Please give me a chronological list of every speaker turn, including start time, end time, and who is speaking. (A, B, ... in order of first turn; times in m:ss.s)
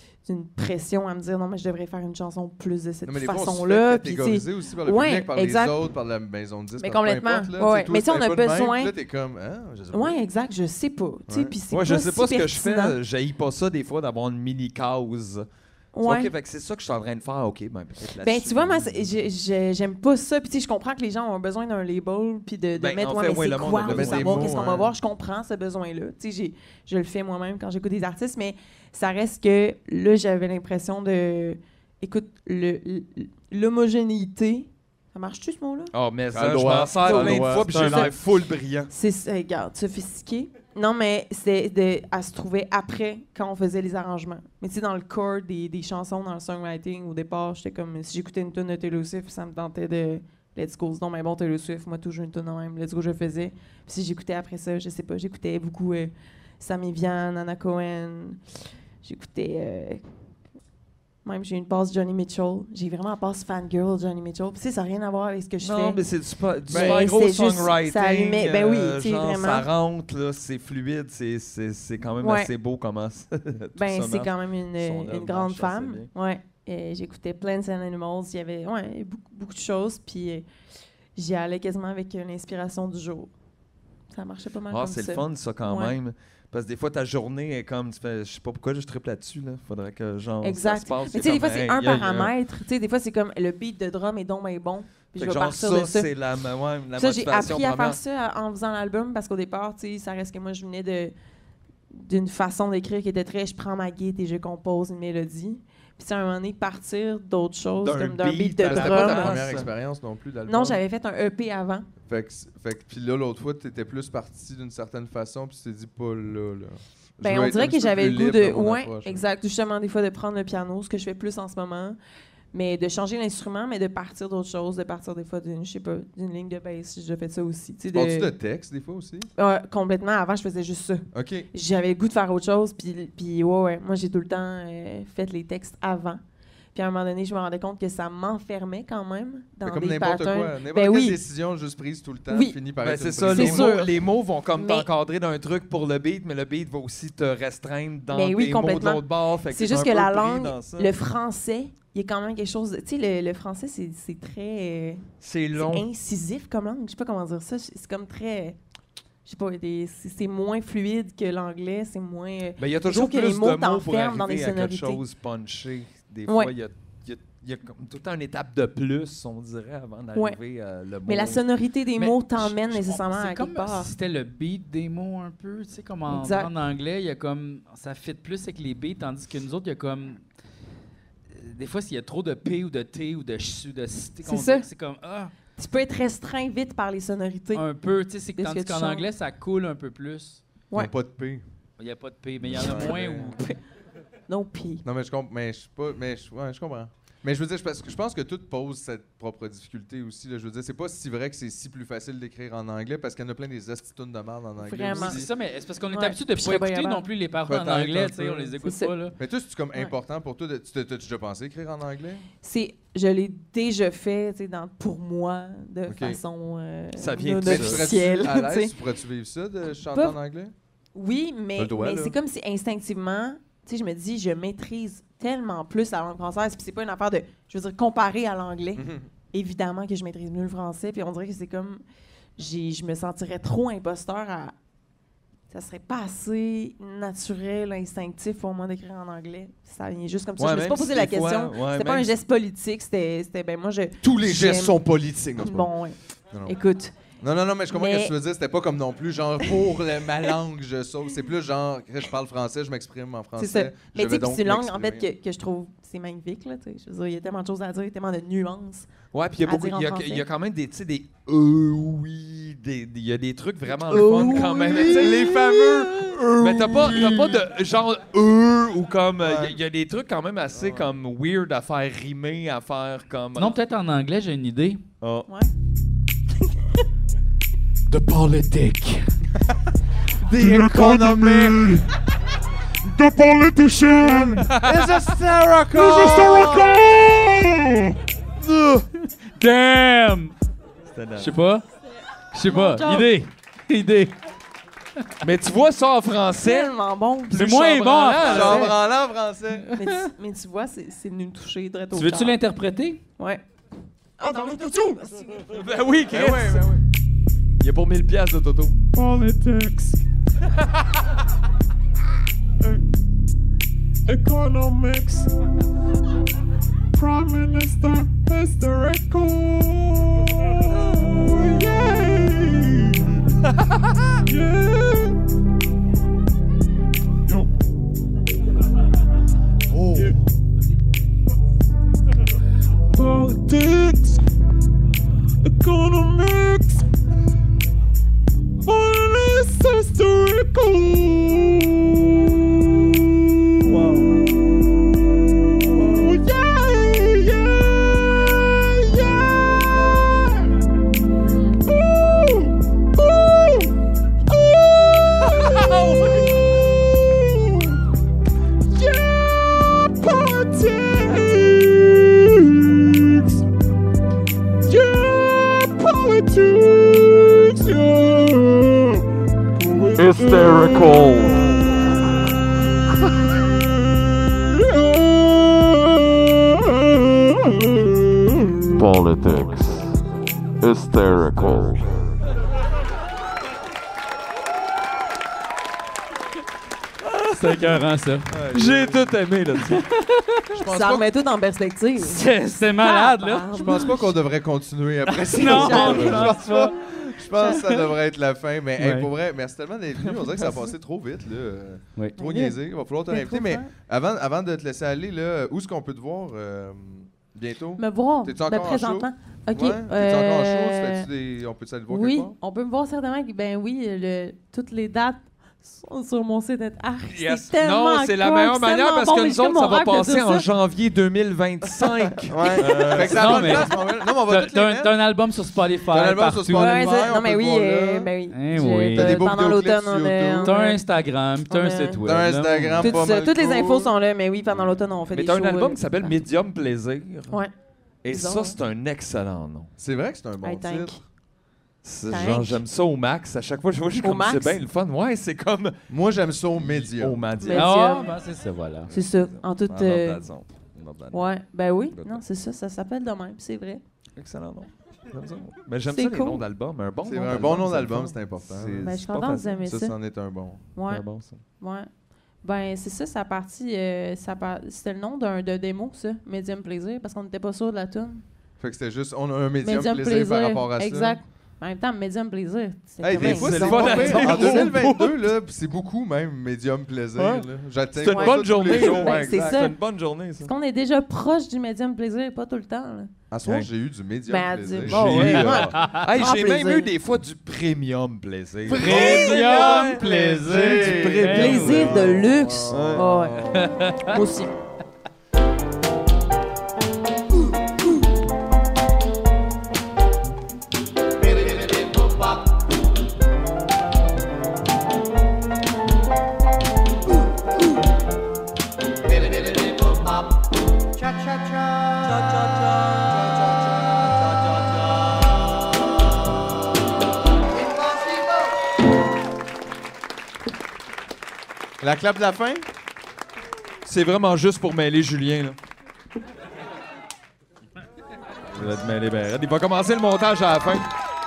0:00.2-0:05.8 A
0:03.0-0:10.2 B
0:06.8-0:08.9 A
0:09.9-0:13.0 A
0:11.3-0:11.6 B
0:11.7-0:15.4 C
0:16.0-0:16.3 A
0:16.0-0:19.0 C
0:18.2-0:35.9 A
0:22.8-0:24.8 C
0:23.9-0:24.9 B
0:35.9-0:38.9 C
0:36.3-0:38.1 B
0:37.0-0:38.2 A
0:38.9-0:58.4 A
0:59.0-1:00.0 A
1:01.2-1:06.0 A
1:05.6-1:16.1 C
1:06.7-1:09.7 A
1:06.7-1:07.1 B
1:12.2-1:12.5 A
1:13.8-1:20.5 A
1:21.2-1:23.3 A
1:24.1-1:26.0 A
1:24.7-1:32.3 C
1:30.4-1:36.1 A
1:35.2-1:38.0 C
1:37.0-1:41.1 A
1:41.9-1:49.3 A
1:47.8-1:49.7 C
1:48.7-1:50.8 B
1:50.4-1:51.9 A
1:52.1-1:59.2 B
1:57.2-2:02.0 A
2:02.5-2:08.3 A
2:07.9-2:09.3 B
2:09.4-2:16.2 A
2:11.1-2:11.5 B
2:16.7-2:21.2 A
2:19.6-2:23.8 B
2:22.3-2:22.6 A
2:22.8-2:30.9 C
2:23.3-2:24.0 A
2:24.5-2:24.9 A
2:28.1-2:35.0 A
2:35.2-2:35.9 C
2:35.5-2:38.6 A
2:39.2-2:45.0 A
2:42.6-2:51.5 C
2:46.3-2:46.5 A
2:50.1-2:50.4 A
2:51.1-2:53.9 A
2:52.0-3:00.2 D
2:56.1-2:56.5 A
3:01.3-3:05.3 D
3:04.2-3:04.7 A
3:05.6-3:07.6 A
3:07.5-3:10.4 D
3:08.4-3:09.1 A
3:10.8-3:11.4 B
3:11.8-3:13.4 D
3:12.6-3:13.1 B
3:12.6-3:13.6 A
3:14.3-3:14.8 A
3:14.8-3:25.3 B
3:24.6-3:25.2 A
3:24.9-3:29.1 D
3:25.9-3:27.1 A
3:27.4-3:28.5 B
3:28.6-3:28.9 A
3:29.2-3:32.3 B
3:32.4-3:38.7 A
3:35.9-3:36.2 B
3:37.0-3:37.9 C
3:37.4-3:40.5 B
3:39.9-3:40.2 A
3:40.9-3:51.8 A
3:41.6-3:42.2 B
3:48.8-3:49.1 B
3:52.4-3:54.5 A
3:55.5-4:04.8 A
4:00.4-4:02.1 C
4:04.0-4:05.7 B
4:05.4-4:07.0 A
4:07.2-4:15.1 B
4:07.7-4:08.1 A
4:09.4-4:09.7 A
4:13.4-4:20.3 A
4:19.1-4:33.6 C
4:23.7-4:25.7 A
4:24.1-4:27.3 B
4:29.2-4:29.6 B
4:30.5-4:30.9 B
4:33.4-4:34.8 D
4:35.0-4:35.3 C
4:37.9-4:39.1 D
4:40.3-4:41.6 B
4:40.3-4:41.9 E
4:42.8-4:44.8 E
4:44.0-4:46.7 B
4:45.7-4:48.0 E
4:48.4-4:48.8 B
4:49.3-4:50.4 D
4:50.9-4:51.3 C
4:51.2-4:51.6 D
4:52.3-4:54.1 D
4:52.4-4:53.1 A
4:55.2-4:56.8 C
4:56.4-4:57.6 A
4:57.3-4:58.8 C
4:57.3-4:58.7 D
4:58.2-4:59.7 B
4:59.8-5:02.4 A
5:01.9-5:03.0 D
5:04.2-5:05.4 A
5:05.5-5:06.7 C
5:06.1-5:06.8 B
5:07.6-5:08.8 C
5:08.9-5:10.0 E
5:14.1-5:15.3 E
5:16.9-5:23.3 E
5:24.3-5:25.2 E
5:27.3-5:27.5 E
5:29.7-5:30.2 B
5:32.9-5:34.2 E
5:35.4-5:36.9 E
5:38.6-5:44.3 E
5:45.6-5:50.3 E
5:51.6-5:57.8 E
5:58.7-6:03.4 E
6:04.7-6:11.9 E
6:10.0-6:11.5 F
6:13.1-6:18.7 E
6:18.8-6:20.0 F
6:20.6-6:21.9 F
6:27.3-6:28.4 D
6:28.3-6:29.2 B
6:28.5-6:29.8 C
6:29.6-6:30.1 A
6:30.5-6:31.1 B
6:30.6-6:32.2 A
6:32.0-6:33.8 D
6:32.8-6:34.2 A
6:33.6-6:52.4 B
6:35.1-6:36.7 D
6:35.4-6:36.4 A
6:37.4-6:37.9 A
6:38.8-6:39.1 D
6:42.2-6:43.7 A
6:47.8-6:51.1 A
6:51.9-7:00.4 A
6:57.1-7:03.6 C
7:02.2-7:05.0 B
7:03.1-7:07.0 D
7:05.9-7:08.1 B
7:06.5-7:10.8 A
7:08.3-7:09.2 D
7:09.0-7:10.5 B
7:10.4-7:13.1 D
7:11.5-7:12.0 A
7:12.0-7:13.9 B
7:12.8-7:16.2 A
7:15.1-7:17.4 C
7:18.0-7:19.7 C
7:18.1-7:18.6 A
7:19.8-7:21.0 B
7:20.4-7:21.0 A
7:21.8-7:25.8 C
7:22.1-7:22.6 A
7:24.0-7:24.6 A
7:25.9-7:27.2 B
7:26.6-7:27.7 C
7:27.4-7:28.1 A
7:27.5-7:28.9 D
7:28.9-7:30.3 A
7:28.9-7:31.4 C
7:31.1-7:33.8 A
7:31.9-7:32.2 C
7:34.2-7:39.7 C
7:35.9-7:36.4 A
7:37.0-7:38.8 B
7:38.8-7:40.0 A
7:39.6-7:40.6 B
7:40.8-7:41.1 A
7:40.9-7:41.4 C
7:41.6-7:41.9 A
7:42.4-7:48.2 A
7:48.6-7:51.2 B
7:49.6-7:54.7 A
7:53.0-7:59.3 B
7:53.1-7:55.2 C
7:57.2-7:57.4 C
7:58.0-8:00.5 C
7:58.1-7:59.8 A
8:00.4-8:03.1 A
8:03.3-8:05.7 B
8:03.4-8:03.7 C
8:04.3-8:06.9 A
8:04.9-8:13.1 C
8:08.7-8:11.9 D
8:08.7-8:12.8 B
8:11.3-8:14.5 A
8:13.4-8:14.2 D
8:41.8-8:42.7 B
8:43.8-8:45.6 C
8:48.6-8:50.9 C